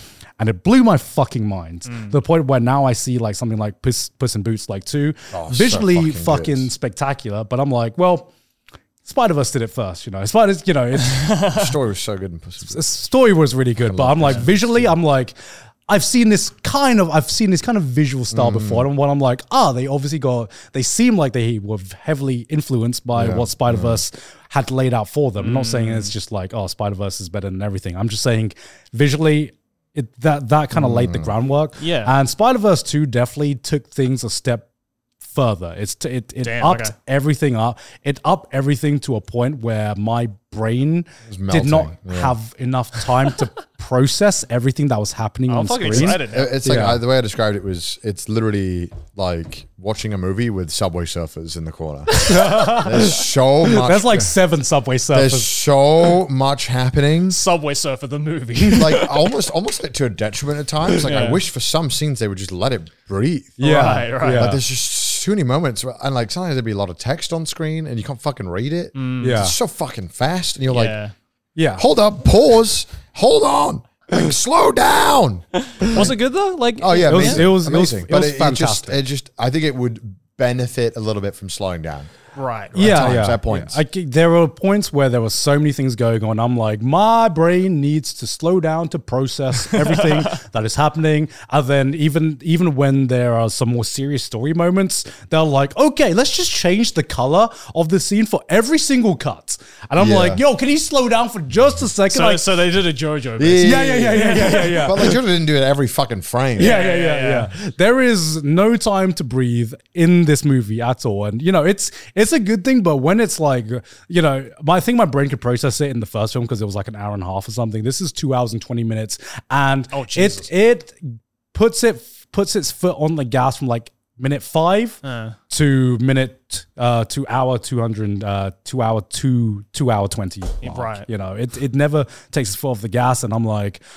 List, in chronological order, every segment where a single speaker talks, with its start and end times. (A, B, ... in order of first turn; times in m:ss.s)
0:00.4-0:08.3 A
0:05.3-0:06.7 B
0:09.0-0:11.3 A
0:11.1-0:11.7 C
0:11.5-0:12.8 B
0:12.6-0:15.4 A
0:13.8-0:14.9 B
0:15.9-0:34.7 A
0:18.3-0:18.9 B
0:23.2-0:24.0 B
0:25.4-0:26.1 C
0:30.7-0:31.3 B
0:31.8-0:32.1 C
0:35.3-0:47.0 A
0:36.4-0:37.0 C
0:41.3-0:42.3 B
0:45.5-0:46.6 C
0:45.9-0:54.4 B
0:52.2-0:55.5 A
0:55.1-0:57.4 B
0:57.3-0:59.3 C
0:58.7-1:11.0 B
1:01.0-1:01.4 C
1:03.6-1:04.6 A
1:03.6-1:04.5 C
1:09.0-1:09.4 C
1:09.2-1:09.5 A
1:10.7-1:11.1 C
1:11.6-1:11.8 A
1:11.8-1:16.1 B
1:15.8-1:17.4 C
1:16.8-1:22.1 B
1:17.1-1:19.0 A
1:22.4-1:23.1 C
1:22.7-1:23.8 B
1:22.8-1:42.5 A
1:29.7-1:30.3 C
1:40.0-1:40.4 B
1:42.1-1:44.9 C
1:43.4-1:46.8 B
1:43.6-1:45.2 A
1:46.6-1:47.5 C
1:46.6-2:05.0 A
1:59.9-2:00.5 C
2:05.0-2:05.4 C
2:05.5-2:13.8 A
2:10.6-2:11.1 C